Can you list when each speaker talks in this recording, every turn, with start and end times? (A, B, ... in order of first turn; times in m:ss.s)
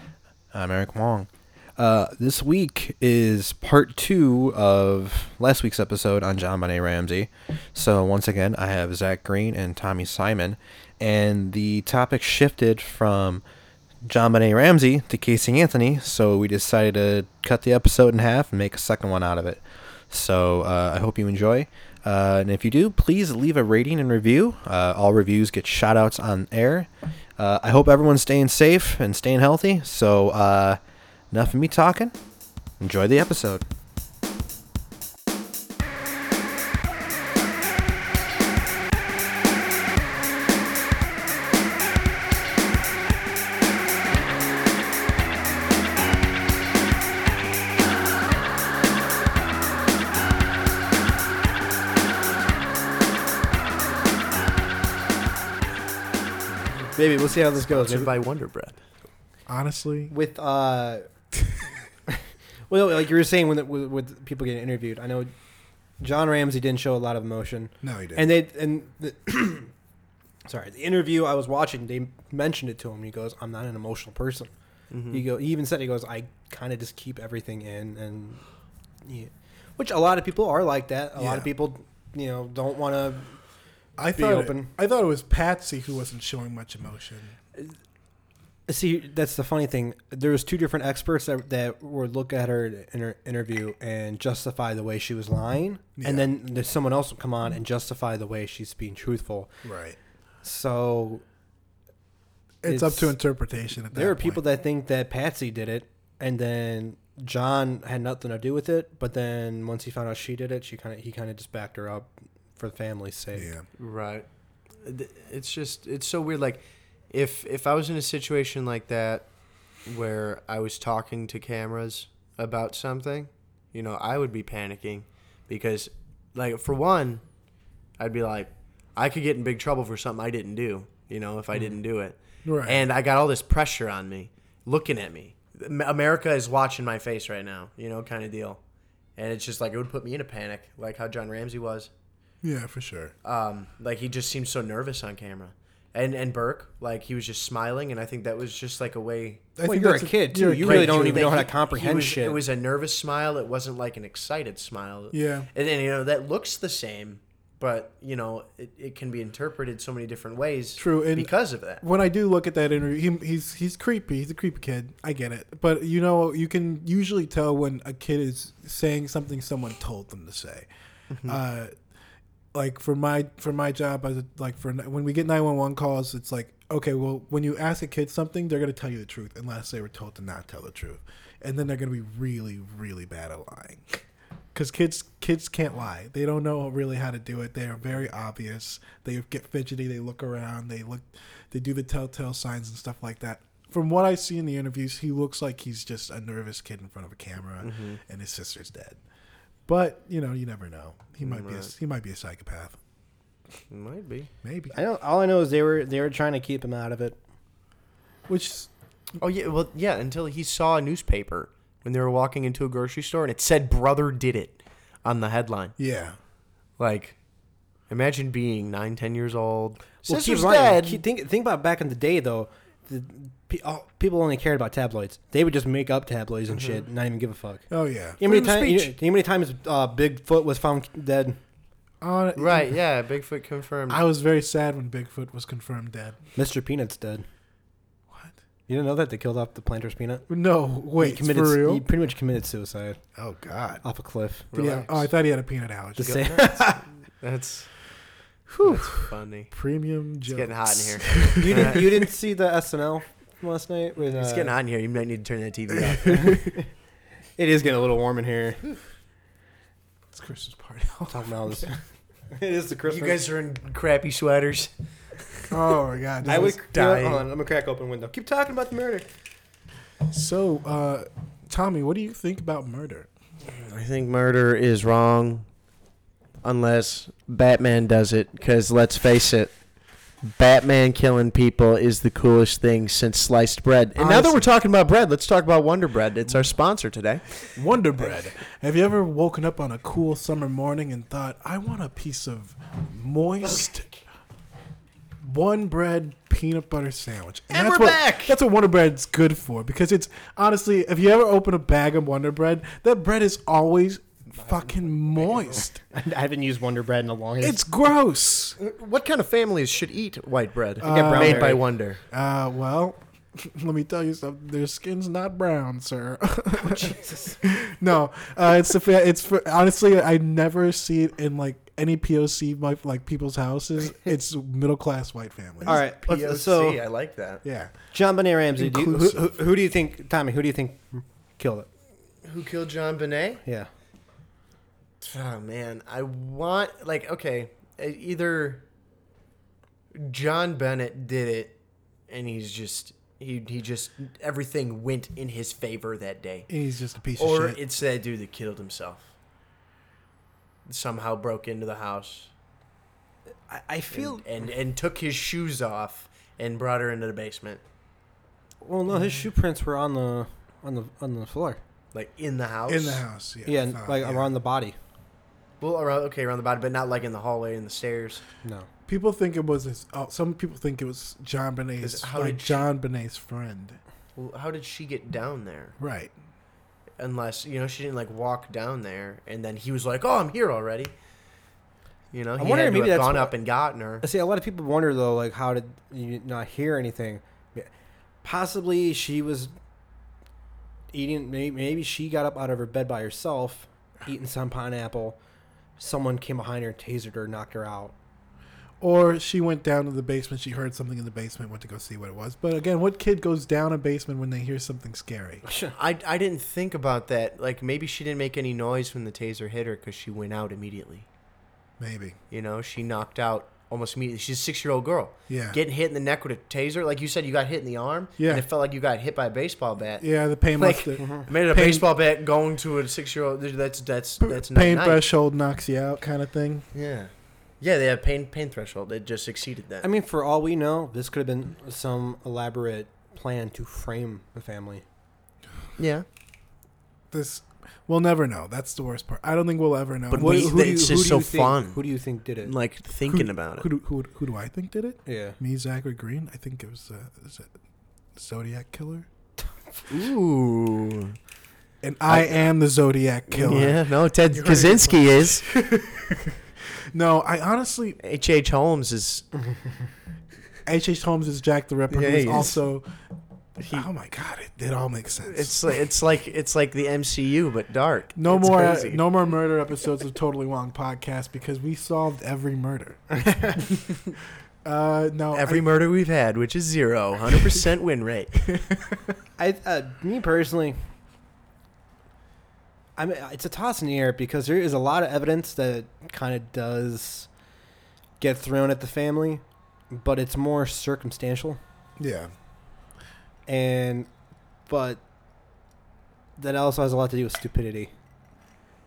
0:00.5-0:13.4 A
0:14.0-0:30.8 A
0:31.3-0:32.2 A
0:32.8-0:33.6 A
0:56.9-0:58.1 A
0:57.7-0:58.8 B
0:59.5-1:00.1 C
1:00.1-1:01.1 A
1:02.1-1:05.3 A
1:06.0-1:09.7 A
1:07.8-1:08.3 C
1:10.4-1:14.5 A
1:14.9-1:15.2 B
1:15.1-1:18.4 A
1:19.0-1:23.4 A
1:21.2-1:21.5 C
1:24.0-1:27.4 C
1:24.2-1:24.7 A
1:28.7-1:39.5 A
1:36.0-1:36.3 C
1:39.6-1:40.0 C
1:40.4-1:41.2 A
1:42.6-1:44.4 C
1:42.7-1:43.2 A
1:43.9-1:53.5 A
1:53.4-1:53.7 C
1:53.8-1:54.3 B
1:54.8-1:59.3 B
1:59.9-2:07.2 B
2:08.0-2:18.6 B
2:12.4-2:12.8 C
2:19.2-2:21.9 B
2:22.4-2:23.1 C
2:23.2-2:29.5 B
2:29.6-2:31.4 C
2:29.6-2:32.4 A
2:30.6-2:41.8 B
2:35.1-2:35.5 C
2:40.8-2:50.7 C
2:51.1-2:51.4 B
2:51.2-2:51.8 C
2:52.5-3:04.0 C
3:04.6-3:19.0 C
3:17.6-3:18.0 B
3:19.7-3:22.8 C
3:21.2-3:21.7 B
3:23.7-3:24.3 B
3:24.4-3:24.8 C
3:24.7-3:27.2 A
3:28.3-3:28.7 C
3:29.2-3:35.8 B
3:35.8-3:36.2 C
3:36.8-3:37.2 B
3:37.9-3:41.0 B
3:40.1-3:47.6 A
3:46.5-3:46.8 B
3:47.7-3:48.2 C
3:48.2-3:51.4 A
3:48.2-3:48.9 B
3:52.0-3:52.7 C
3:52.4-3:54.0 B
3:53.9-3:56.2 C
3:56.4-3:57.3 A
3:58.1-3:58.4 C
3:58.7-4:00.2 A
4:00.3-4:01.8 C
4:01.0-4:03.0 A
4:03.2-4:03.8 C
4:03.8-4:04.5 A
4:04.5-4:05.1 B
4:04.5-4:06.5 C
4:06.0-4:06.8 A
4:06.0-4:07.7 B
4:08.5-4:11.8 C
4:08.6-4:09.5 B
4:10.3-4:11.9 B
4:11.4-4:14.5 A
4:14.1-4:16.4 B
4:15.7-4:16.5 C
4:16.1-4:16.7 A
4:17.4-4:18.7 A
4:20.1-4:21.6 C
4:21.1-4:21.8 A
4:22.3-4:23.2 A
4:22.9-4:24.7 B
4:25.5-4:26.6 C
4:26.2-4:29.1 A
4:26.3-4:27.3 B
4:30.1-4:33.1 C
4:33.4-4:35.5 B
4:36.4-4:39.5 B
4:40.2-4:47.4 B
4:44.0-4:44.5 C
4:47.6-4:53.9 C
4:55.2-5:05.8 C
4:57.5-4:58.4 A
5:05.9-5:07.6 A
5:07.4-5:08.6 C
5:08.6-5:12.0 B
5:10.8-5:25.8 C
5:10.8-5:11.6 A
5:16.7-5:17.3 B
5:25.6-5:27.4 B
5:25.6-5:26.8 A
5:27.4-5:27.8 C
5:27.9-5:31.7 A
5:28.6-5:29.3 C
5:32.2-5:33.4 B
5:33.4-5:33.7 A
5:35.0-5:38.6 B
5:39.9-5:41.6 B
5:42.1-5:46.5 B
5:46.5-5:47.6 C
5:47.2-5:49.1 B
5:50.7-5:52.3 B
5:53.5-5:54.2 A
5:53.9-5:57.6 B
5:58.6-6:01.6 A
6:01.9-6:03.0 B
6:02.7-6:04.3 C
6:03.5-6:04.8 A
6:05.6-6:08.2 B
6:08.9-6:13.8 C
6:11.8-6:12.6 B
6:14.2-6:15.8 B
6:15.8-6:16.1 C
6:17.0-6:20.9 B
6:22.1-6:24.1 B
6:22.4-6:23.3 A
6:24.0-6:27.7 A
6:28.2-6:29.5 A
6:30.9-6:35.2 A
6:35.8-6:38.0 A
6:38.8-6:45.4 C
6:45.4-6:45.7 A
6:45.8-6:51.1 B
6:51.8-6:52.2 C
6:52.3-7:05.0 B
6:55.3-6:55.6 C
6:58.2-6:58.5 C
7:00.0-7:01.9 C
7:01.0-7:01.3 A
7:04.2-7:06.7 C
7:06.7-7:09.9 B
7:09.8-7:14.8 A
7:15.8-7:16.1 B
7:17.1-7:20.6 C
7:20.1-7:21.8 B
7:20.2-7:22.5 A
7:22.4-7:23.7 B
7:23.1-7:27.5 C
7:25.1-7:25.4 A
7:28.2-7:29.1 C
7:29.9-7:31.2 B
7:31.8-7:36.4 C
7:32.1-7:32.5 B
7:33.3-7:35.5 B
7:36.9-7:38.0 C
7:38.0-7:39.3 B
7:40.7-7:42.9 C
7:41.9-7:42.6 B
7:43.6-7:43.9 B
7:43.7-7:45.8 C
7:45.2-7:49.0 B
7:48.2-7:53.9 C
7:54.6-7:55.7 C
7:55.3-7:58.4 B
7:58.5-7:59.1 C
7:59.4-8:00.8 A
8:03.0-8:07.3 A
8:08.2-8:11.6 A
8:12.0-8:12.3 C
8:13.5-8:14.1 A
8:14.7-8:15.0 A
8:16.4-8:17.9 A